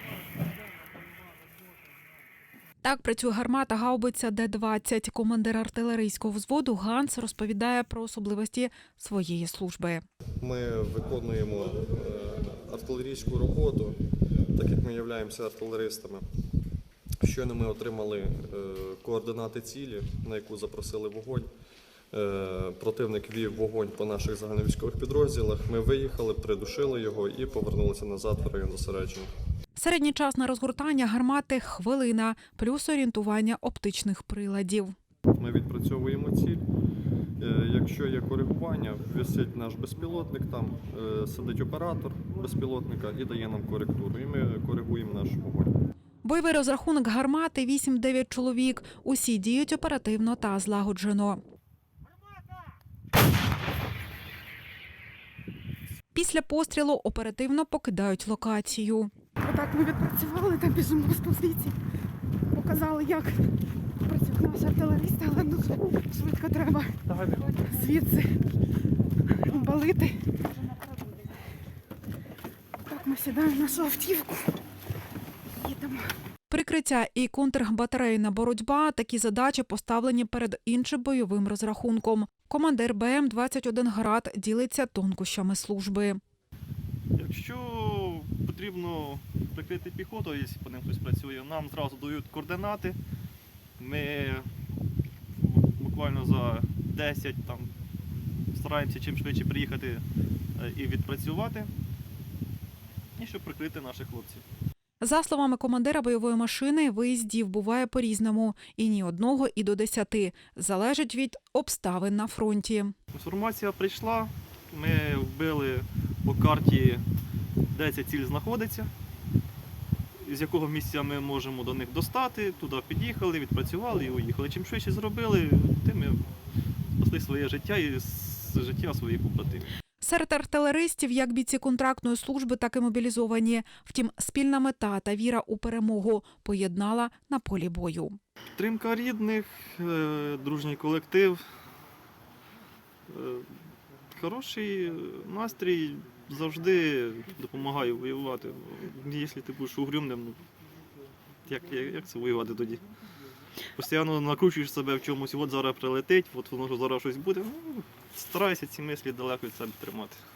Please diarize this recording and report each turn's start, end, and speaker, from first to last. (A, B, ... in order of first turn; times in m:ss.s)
0:02.8-0:10.0 A
0:10.4-0:14.0 B
0:14.5-0:16.2 B
0:17.2-0:21.5 B
0:22.1-0:29.3 B
0:29.8-0:34.9 A
0:35.4-0:36.6 B
0:37.4-0:45.7 B
0:46.2-0:51.4 A
0:56.1-0:59.1 A
0:59.4-1:01.8 C
1:02.5-1:03.5 C
1:04.0-1:08.4 C
1:09.3-1:10.2 C
1:12.9-1:14.6 C
1:15.6-1:16.1 C
1:16.5-1:26.2 A
1:27.2-1:33.0 D
1:33.8-1:34.5 D
1:35.4-1:37.7 D
1:38.5-1:40.0 D
1:40.6-1:41.7 D
1:43.2-1:44.4 D
1:45.0-1:52.9 A
1:53.1-1:57.0 D
1:57.7-1:58.9 D
2:00.2-2:06.3 D
2:07.0-2:09.7 D
2:10.0-2:18.2 A
2:18.6-2:21.4 D
2:23.1-2:23.6 D
2:24.1-2:30.4 D
2:31.5-2:32.8 D
2:33.8-2:40.2 D